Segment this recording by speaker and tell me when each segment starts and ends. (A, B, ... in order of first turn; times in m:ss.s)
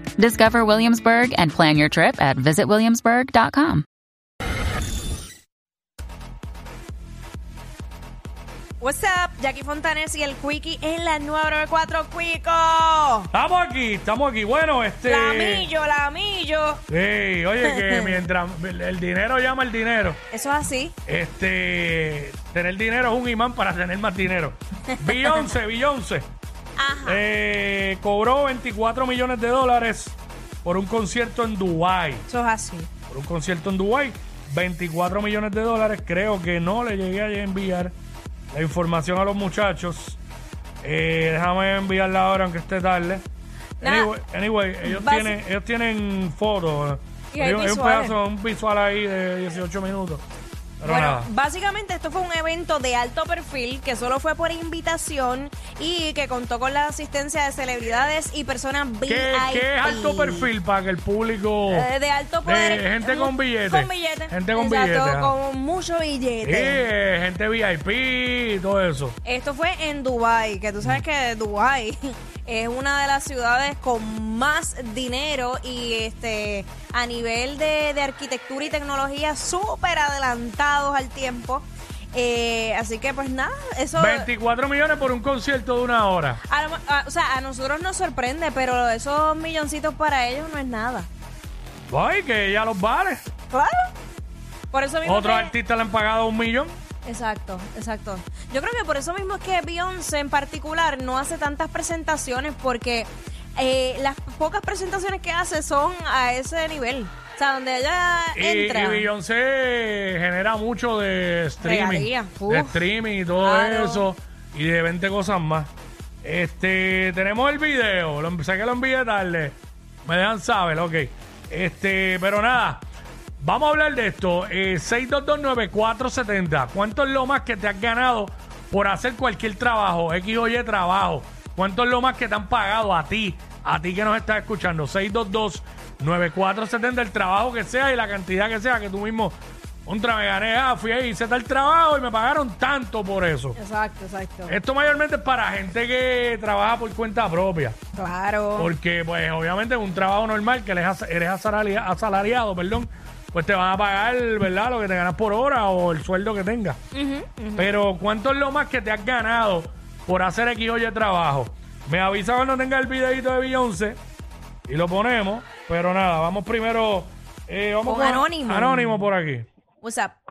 0:00.2-0:03.8 A
0:08.8-0:13.3 B
0:13.3-0:15.7 C
0:15.0-0:16.8 B
0:16.9-0:20.2 C
0:17.6-0:18.2 B
0:20.3-0:20.9 B
0:21.1-0:26.3 C
0:24.9-0:25.5 B
0:26.8-0:27.2 B
0:27.0-0:32.2 C
0:32.3-0:32.9 B
0:33.1-0:37.9 C
0:38.5-0:40.2 C
0:40.8-0:43.2 C
0:43.8-0:44.1 B
0:43.8-0:50.2 C
0:44.8-0:45.4 B
0:47.3-0:48.2 B
0:50.8-0:51.3 C
0:50.8-1:00.5 B
0:59.0-1:01.9 C
1:01.7-1:06.9 B
1:02.4-1:05.3 C
1:06.4-1:09.2 C
1:09.2-1:24.3 B
1:23.9-1:26.4 C
1:26.5-1:31.1 B
1:31.9-1:33.2 C
1:33.5-1:33.9 B
1:34.7-1:35.5 B
1:35.0-1:36.7 C
1:37.0-1:49.1 B
1:48.3-1:55.7 C
1:51.6-1:54.1 B
1:56.2-2:02.8 C
2:03.4-2:23.6 C
2:23.5-2:24.6 B
2:24.5-2:27.8 C
2:28.0-2:28.7 B
2:28.6-2:36.8 C
2:36.9-2:37.7 B
2:37.6-2:44.0 C
2:44.7-2:49.5 C
2:47.8-2:49.0 B
2:49.8-2:50.2 B